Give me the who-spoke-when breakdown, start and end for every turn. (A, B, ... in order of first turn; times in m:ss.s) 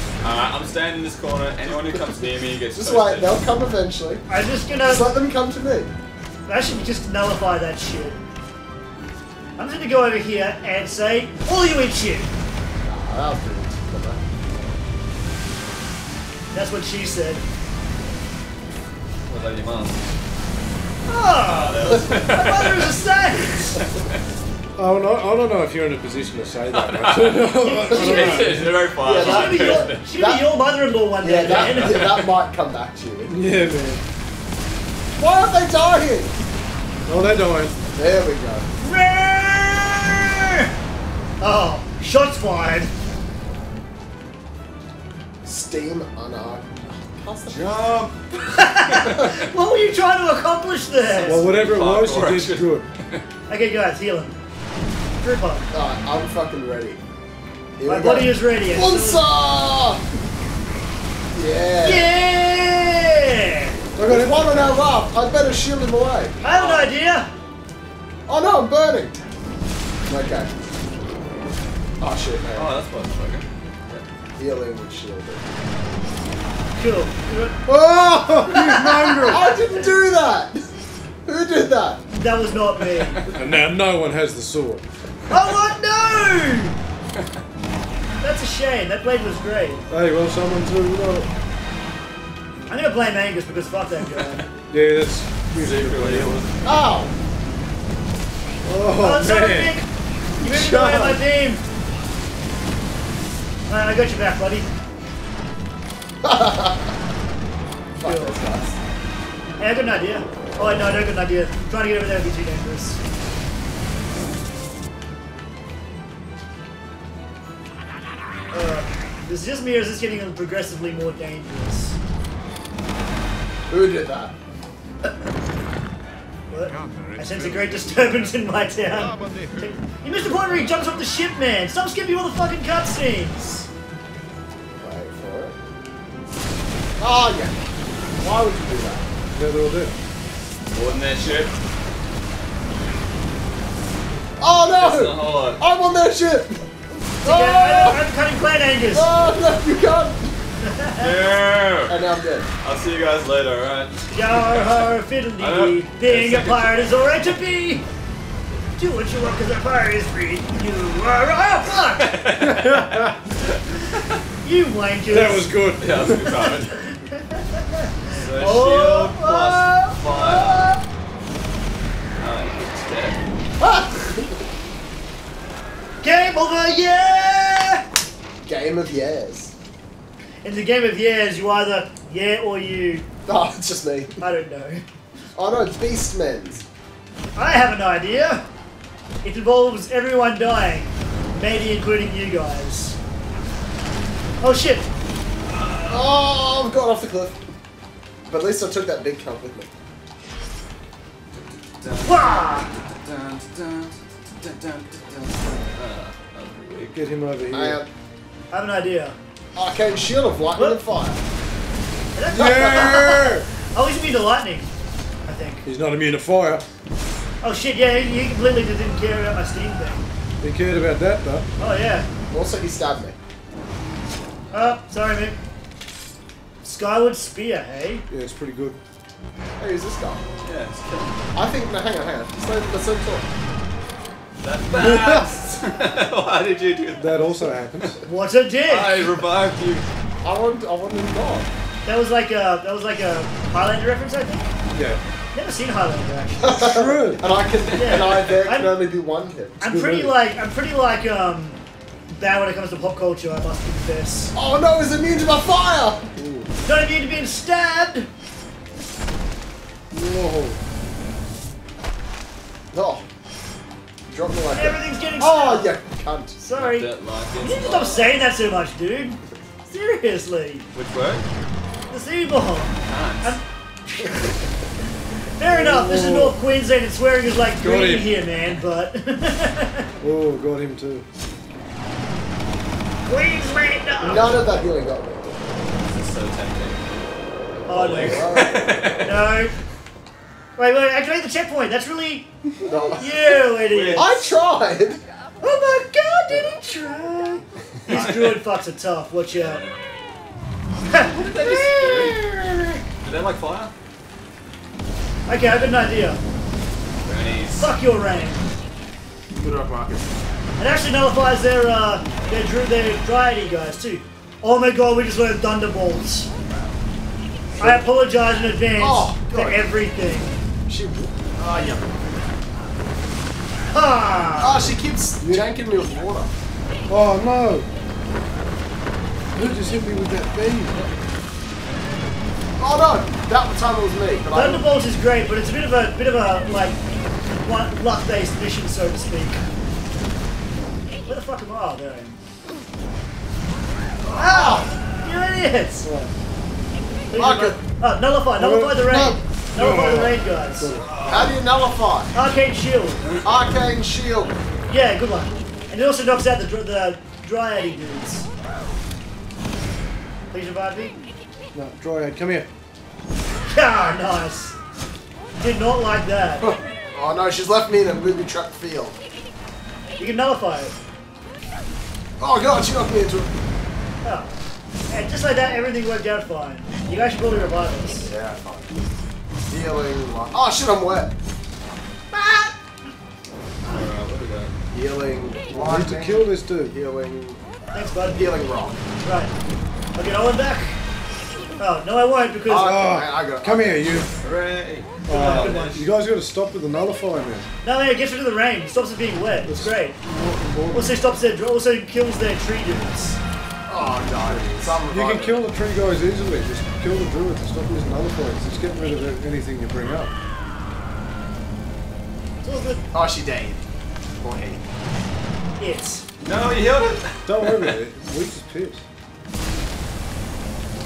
0:00.2-0:03.4 A
0:02.7-0:04.2 B
0:04.3-0:05.1 C
0:04.8-0:05.9 B
0:06.4-0:08.2 C
0:09.6-0:12.3 C
0:12.8-0:14.2 B
0:16.5-0:17.4 C
0:19.3-0:20.0 A
0:21.1-0:23.8 C
0:21.4-0:22.9 A
0:24.8-0:28.7 D
0:26.7-0:27.4 A
0:27.6-0:28.6 C
0:27.9-0:28.4 B
0:28.0-0:30.0 A
0:29.0-0:30.5 B
0:29.2-0:32.2 C
0:31.2-0:33.3 B
0:31.5-0:32.3 A
0:33.3-0:34.0 D
0:35.2-0:36.3 B
0:37.1-0:37.7 D
0:37.9-0:38.7 B
0:38.8-0:40.7 C
0:41.4-0:42.9 C
0:45.4-0:47.7 B
0:47.5-0:49.4 A
0:48.5-0:51.4 C
0:51.1-0:53.2 A
0:51.2-0:52.9 D
0:53.5-0:54.4 C
0:55.2-0:55.7 C
0:55.7-0:57.0 B
0:57.8-1:00.0 B
0:57.8-0:59.3 C
1:01.3-1:02.1 B
1:01.8-1:03.8 C
1:04.0-1:04.5 D
1:04.0-1:06.4 B
1:06.4-1:07.3 C
1:06.4-1:06.9 A
1:08.3-1:09.2 B
1:10.0-1:10.5 B
1:12.0-1:12.7 B
1:12.5-1:14.0 A
1:14.4-1:15.4 B
1:16.8-1:17.6 C
1:17.6-1:19.5 D
1:18.4-1:20.0 C
1:19.2-1:20.7 B
1:21.2-1:22.0 B
1:22.1-1:23.2 C
1:23.0-1:23.3 A
1:23.3-1:24.8 D
1:25.3-1:26.8 C
1:28.2-1:29.8 C
1:29.9-1:31.3 D
1:32.7-1:34.5 C
1:34.7-1:36.3 D
1:35.6-1:36.9 A
1:36.6-1:37.1 B
1:38.6-1:39.8 D
1:39.0-1:39.9 C
1:40.4-1:41.2 D
1:40.4-1:41.6 C
1:43.7-1:44.7 C
1:46.2-1:46.9 B
1:48.0-1:48.8 B
1:48.0-1:48.4 C
1:49.6-1:53.0 C
1:58.5-2:02.0 C
2:03.7-2:04.4 B
2:06.5-2:13.5 C
2:14.8-2:15.6 B
2:17.0-2:17.6 B
2:18.2-2:19.0 B
2:19.3-2:20.0 D
2:20.7-2:21.5 A
2:24.4-2:26.6 B
2:24.7-2:25.6 A
2:27.2-2:28.0 B
2:27.2-2:29.1 C
2:28.9-2:30.3 B
2:30.6-2:31.1 C
2:31.0-2:32.0 A
2:31.8-2:32.5 B
2:32.6-2:37.3 A
2:34.1-2:37.8 C
2:38.8-2:42.1 C
2:42.0-2:42.9 A
2:42.4-2:43.2 D
2:44.4-2:45.5 C
2:45.1-2:46.3 D
2:45.8-2:46.8 A
2:46.4-2:50.8 C
2:48.1-2:50.7 A
2:52.2-2:53.2 A
2:53.6-2:54.4 B
2:56.0-2:57.8 C
2:58.4-2:59.5 B
3:00.4-3:03.0 C
3:03.2-3:04.2 B
3:04.2-3:04.8 C
3:05.3-3:06.6 B
3:07.4-3:08.4 C
3:09.2-3:13.0 C
3:14.4-3:14.9 C
3:15.8-3:17.4 B
3:18.3-3:19.7 B
3:21.3-3:26.9 A
3:22.0-3:22.7 C
3:26.9-3:27.8 D
3:27.5-3:27.9 B
3:28.5-3:29.2 C
3:29.5-3:31.2 B
3:30.5-3:30.8 C
3:32.1-3:34.7 C
3:32.3-3:33.5 D
3:32.4-3:33.2 B
3:35.2-3:35.6 C
3:35.6-3:36.6 D
3:37.4-3:40.1 C
3:40.4-3:41.5 D
3:41.6-3:42.1 C
3:42.3-3:43.2 B
3:44.5-3:44.8 A
3:44.5-3:45.4 C
3:46.6-3:48.0 C
3:48.1-3:48.8 D
3:49.6-3:50.2 B
3:50.4-3:51.2 A
3:51.3-3:53.3 B
3:54.4-3:57.1 A
3:54.7-3:55.3 D
3:57.0-3:58.0 D
3:58.0-3:59.0 C
3:58.6-3:59.9 A
4:00.2-4:01.5 B
4:01.8-4:04.5 C
4:04.7-4:05.0 D
4:05.3-4:06.7 C
4:06.4-4:09.6 B
4:06.5-4:07.2 D
4:07.7-4:08.4 A
4:07.8-4:08.7 C
4:09.6-4:11.6 C
4:09.6-4:10.2 D
4:12.1-4:14.3 C
4:14.3-4:16.2 B
4:16.2-4:16.5 D
4:16.6-4:18.1 C
4:19.9-4:20.6 D
4:22.7-4:23.0 B
4:24.1-4:26.4 B
4:24.5-4:25.7 C
4:26.4-4:30.6 C
4:26.5-4:28.1 A
4:30.7-4:31.2 A
4:31.9-4:34.4 C
4:32.8-4:33.4 A
4:35.4-4:39.9 C
4:35.4-4:36.4 D
4:37.6-4:38.1 D
4:40.0-4:41.0 D
4:43.0-4:44.4 C
4:44.0-4:45.4 B
4:45.8-4:46.8 A
4:47.7-4:48.4 C
4:47.7-4:49.1 A
4:48.0-4:49.0 B
4:49.0-4:49.5 C
4:50.6-4:52.3 C
4:52.6-4:53.4 B
4:52.9-4:54.3 C
4:53.7-4:54.1 A
4:53.9-4:55.0 B
4:55.4-4:59.6 C
4:57.9-4:58.4 A
4:59.3-4:59.7 A
5:00.9-5:01.3 C
5:01.0-5:02.2 A
5:01.4-5:02.8 B
5:03.0-5:03.7 A
5:05.3-5:06.2 C
5:07.0-5:07.7 A
5:07.6-5:08.4 C
5:09.3-5:10.2 B
5:10.6-5:16.3 C
5:17.6-5:17.8 B
5:17.6-5:20.3 C
5:18.8-5:19.7 B
5:20.7-5:21.8 B
5:23.7-5:24.7 C
5:24.4-5:26.3 B
5:25.2-5:25.5 D
5:26.9-5:27.7 D
5:29.3-5:30.9 D
5:32.6-5:34.7 B
5:34.3-5:36.8 C
5:37.4-5:39.4 C
5:41.0-5:42.2 C
5:44.0-5:44.7 B
5:44.1-5:45.9 C
5:45.8-5:46.1 D
5:47.1-5:50.7 C
5:47.1-5:47.6 B
5:48.4-5:50.9 D
5:50.7-5:51.4 A
5:51.1-5:52.1 B
5:52.1-5:53.0 C
5:53.2-5:54.4 B
5:54.7-5:58.3 C
6:00.3-6:01.0 C
6:01.5-6:02.5 D
6:03.5-6:04.6 C
6:05.4-6:06.5 C
6:06.4-6:09.0 B
6:10.0-6:10.7 C
6:12.2-6:13.3 B
6:14.0-6:14.3 C
6:14.9-6:18.1 C
6:18.0-6:18.7 B
6:19.5-6:21.1 B
6:22.1-6:22.4 C
6:23.6-6:24.5 A
6:24.7-6:27.4 B
6:25.5-6:26.7 D
6:27.7-6:28.2 C
6:28.0-6:28.8 B
6:29.0-6:29.3 C
6:29.9-6:30.8 C
6:31.6-6:32.8 C
6:32.4-6:34.1 B
6:32.6-6:34.1 D
6:34.2-6:35.5 A
6:35.0-6:37.5 D
6:35.1-6:35.9 C
6:37.6-6:40.0 C
6:39.4-6:41.0 D
6:40.7-6:43.2 C
6:43.7-6:45.4 B
6:44.9-6:50.1 D
6:52.4-6:52.8 C
6:52.9-6:53.6 B
6:54.2-6:54.6 B
6:55.6-6:56.0 C
6:56.2-6:57.8 A
6:57.2-6:58.8 D